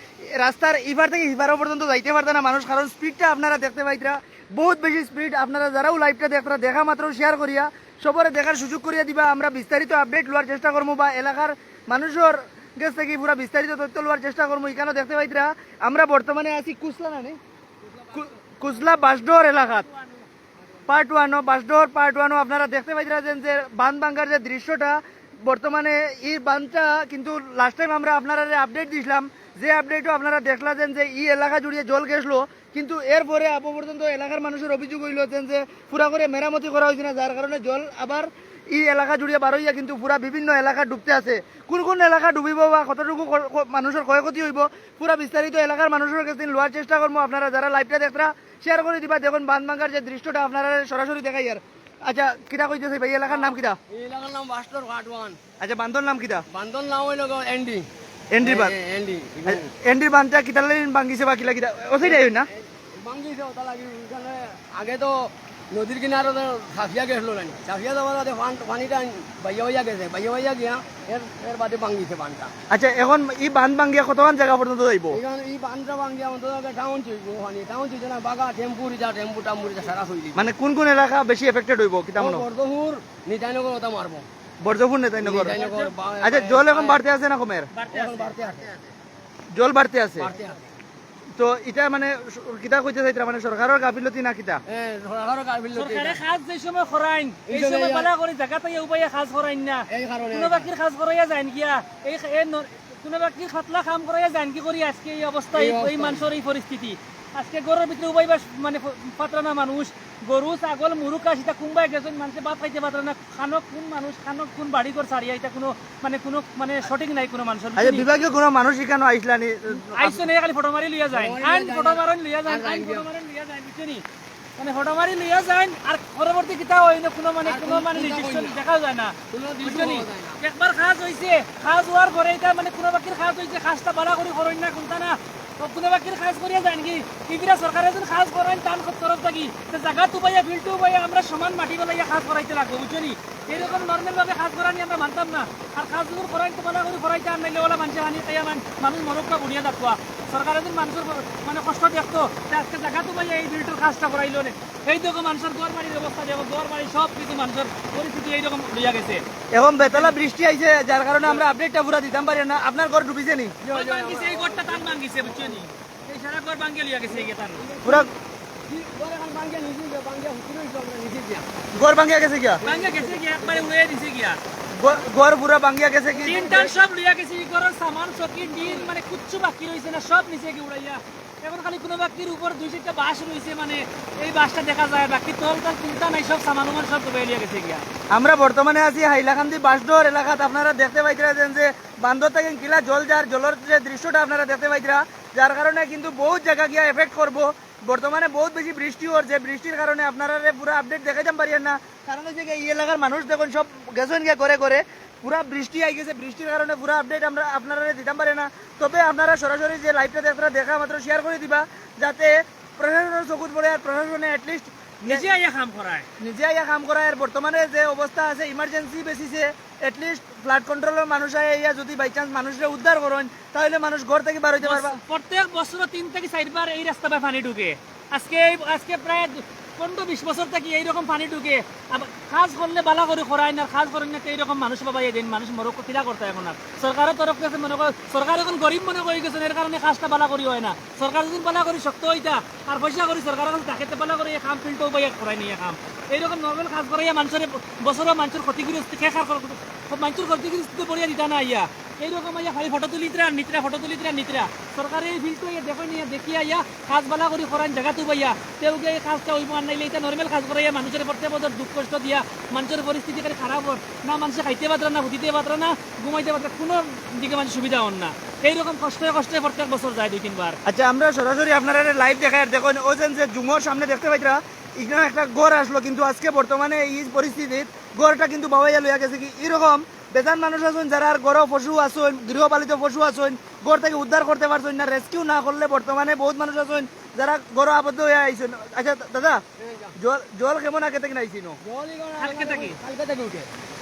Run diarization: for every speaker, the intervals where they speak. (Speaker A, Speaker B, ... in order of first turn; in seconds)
Speaker A: 0.3-17.4, 18.1-19.9, 20.9-53.8, 55.6-56.4, 58.3-58.7, 59.4-62.5, 72.7-75.2, 80.3-82.4, 84.6-85.6, 86.2-87.7, 89.5-90.3, 91.4-94.6, 117.8-120.2, 159.5-163.5, 167.8-168.1, 171.7-172.6, 174.8-176.8, 188.1-215.3, 216.2-225.0, 270.6-289.4, 290.0-291.6
Speaker B: 53.3-55.4, 56.5-57.9, 58.4-59.7, 62.0-72.5, 75.1-80.4, 82.2-84.2, 85.2-87.0, 87.9-88.8, 90.2-90.6, 94.7-96.2, 97.5-98.1, 99.9-100.7, 105.5-106.3, 121.1-123.1, 127.4-128.6, 129.3-130.4, 163.6-165.7, 167.1-168.1, 168.7-171.4, 172.6-173.7, 176.1-176.8, 178.5-178.9, 289.6-289.9, 291.6-293.5
Speaker C: 85.5-85.9, 87.7-88.3, 95.7-118.1, 119.8-124.0, 124.6-159.2, 159.8-160.1, 163.7-167.7, 172.6-174.4, 176.2-187.8, 215.0-216.1, 224.6-270.6, 292.2-292.8